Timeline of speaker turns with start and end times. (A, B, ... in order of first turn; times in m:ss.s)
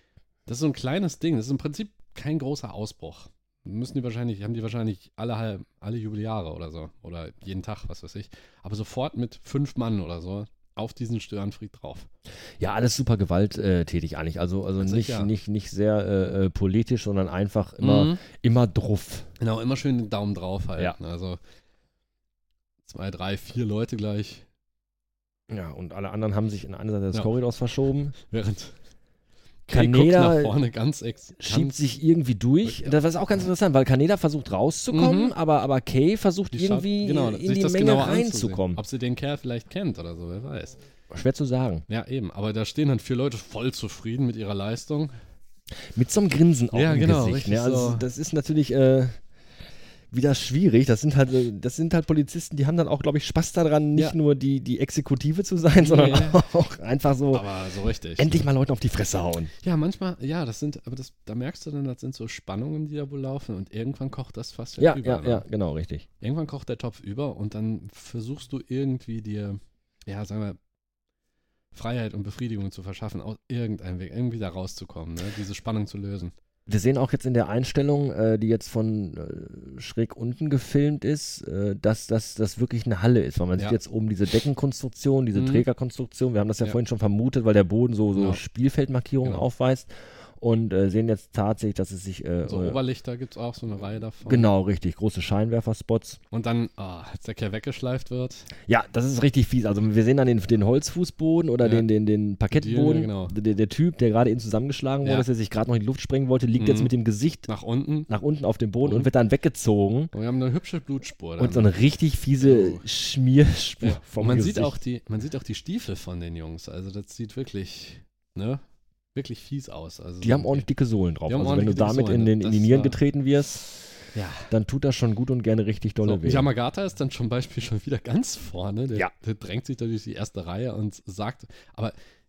0:00.4-0:12.1 A
0:12.6-0:19.3 B
0:14.8-0:15.3 A
0:17.8-0:18.2 A
0:19.4-0:21.4 A
0:22.8-0:24.4 A
0:25.5-0:28.1 B
0:28.2-0:28.7 A
0:29.7-0:31.8 A
0:29.7-0:30.6 B
0:31.4-0:38.8 B
0:32.6-0:33.4 A
0:34.9-0:35.3 A
0:36.5-0:40.8 A
0:41.1-0:41.8 B
0:41.9-0:45.1 A
0:45.9-0:49.2 B
0:46.7-0:48.0 A
0:50.1-0:57.5 B
0:55.7-0:56.5 A
0:57.3-0:58.4 A
0:58.2-0:59.5 B
0:59.6-1:05.4 A
1:04.8-1:06.0 B
1:06.2-1:10.6 A
1:11.7-1:16.3 A
1:16.7-1:32.8 B
1:25.3-1:25.6 A
1:28.1-1:28.4 A
1:32.4-1:34.5 A
1:34.2-1:36.2 B
1:36.3-1:38.5 A
1:38.7-1:47.5 B
1:41.6-1:41.9 A
1:42.5-1:43.4 A
1:46.6-1:46.9 A
1:47.5-1:48.1 A
1:48.1-1:50.1 B
1:48.8-1:49.1 A
1:50.1-1:51.7 A
1:51.4-1:54.8 B
1:52.4-1:52.8 A
1:53.8-1:58.6 A
1:59.1-2:00.6 A
2:00.2-2:03.7 B
2:01.3-2:03.0 A
2:04.1-2:04.5 A
2:04.5-2:06.5 B
2:06.0-2:11.9 A